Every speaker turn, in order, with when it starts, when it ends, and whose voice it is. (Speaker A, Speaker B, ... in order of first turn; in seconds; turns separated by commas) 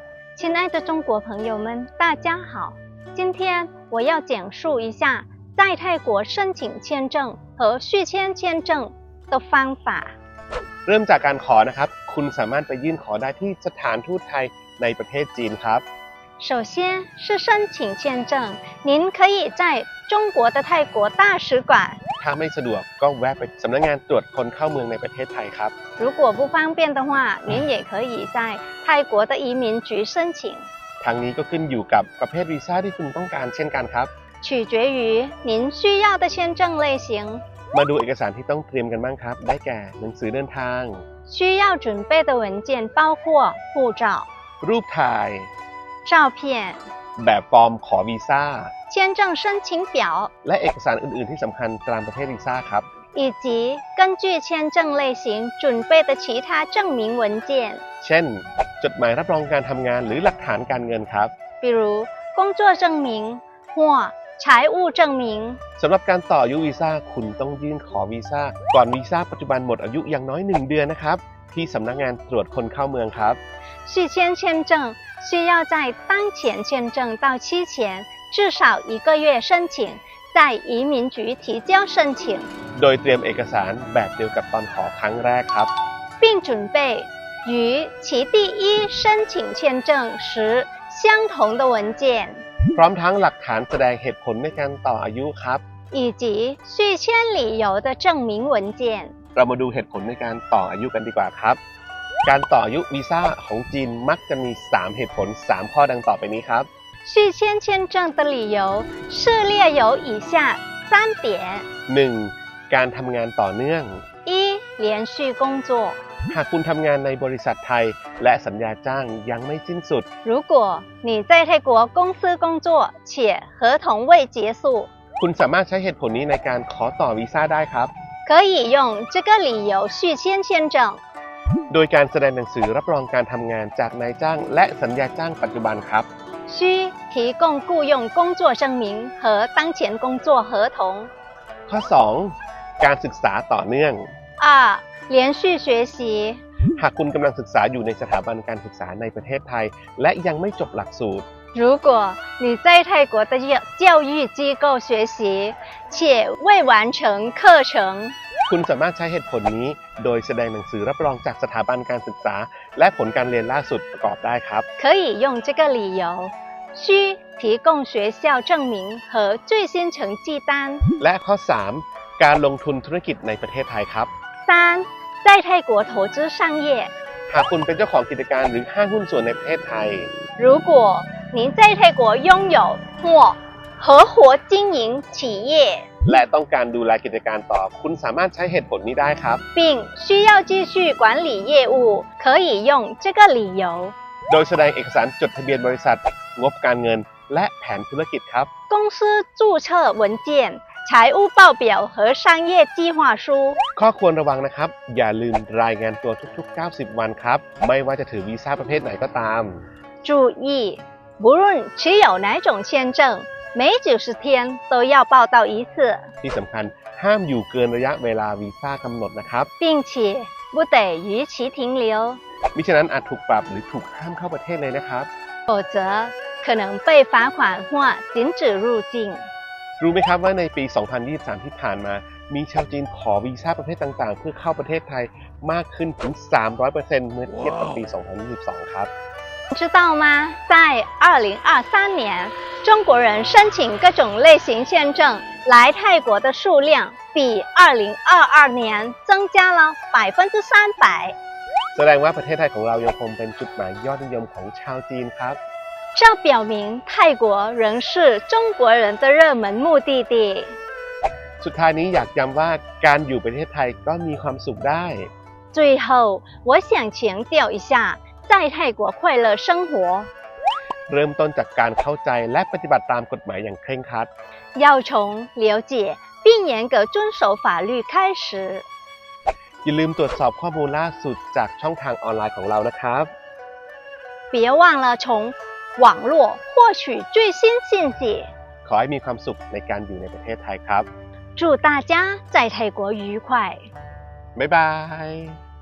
Speaker A: 0.4-10.2, Speaker B: 10.9-15.8, Speaker A: 16.4-22.0, Speaker B: 22.2-25.7, Speaker A: 26.0-30.7, Speaker B: 31.0-34.1, Speaker A: 34.4-37.4, Speaker B: 37.7-41.0, Speaker A: 41.3-44.3, Speaker B: 44.6-45.5, Speaker A: 46.0-46.8, Speaker B: 47.2-48.7, Speaker A: 48.9-50.3, Speaker B: 50.4-52.9, Speaker A: 53.1-57.8, Speaker B: 58.0-61.3, Speaker A: 61.6-65.6, Speaker B: 65.8-73.4, Speaker A: 73.8-82.5, Speaker B: 82.8-85.7, Speaker A: 86.2-92.4, Speaker B: 92.7-95.6, Speaker A: 95.9-99.1, Speaker B: 99.3-101.6, Speaker B: 102.3-106.7, Speaker A: 107.0-111.7, Speaker B: 111.9-114.0, Speaker A: 114.3-116.0, Speaker B: 116.3-120.1, Speaker A: 120.2-124.9, Speaker B: 125.2-127.9, Speaker A: 128.3-131.0, Speaker B: 131.7-136.1, Speaker A: 136.5-141.1, Speaker B: 141.7-144.1, Speaker A: 144.4-146.4, Speaker B: 146.8-151.2, Speaker A: 151.6-158.2, Speaker B: 158.5-164.7, Speaker A: 164.8-170.9, Speaker B: 171.0-174.1, Speaker A: 174.5-176.9, Speaker B: 177.3-180.1, Speaker A: 180.4-185.9, Speaker B: 186.1-189.4, Speaker A: 189.6-193.9, Speaker B: 194.3-198.5, Speaker A: 198.7-203.6, Speaker B: 203.8-209.6, Speaker A: 210.0-216.1, Speaker B: 216.2-219.5, Speaker A: 219.6-222.2, Speaker B: 222.5-225.1, Speaker A: 225.5-229.2, Speaker B: 229.8-238.9, Speaker A: 239.5-251.2, Speaker B: 251.8-255.4, Speaker A: 255.9-260.6, Speaker B: 261.4-265.1, Speaker A: 265.5-270.1, Speaker B: 270.9-274.1, Speaker A: 274.6-278.6, Speaker B: 279.6-283.1, Speaker A: 284.3-288.3, Speaker B: 288.6-290.9, Speaker A: 291.4-293.7, Speaker B: 294.4-295.4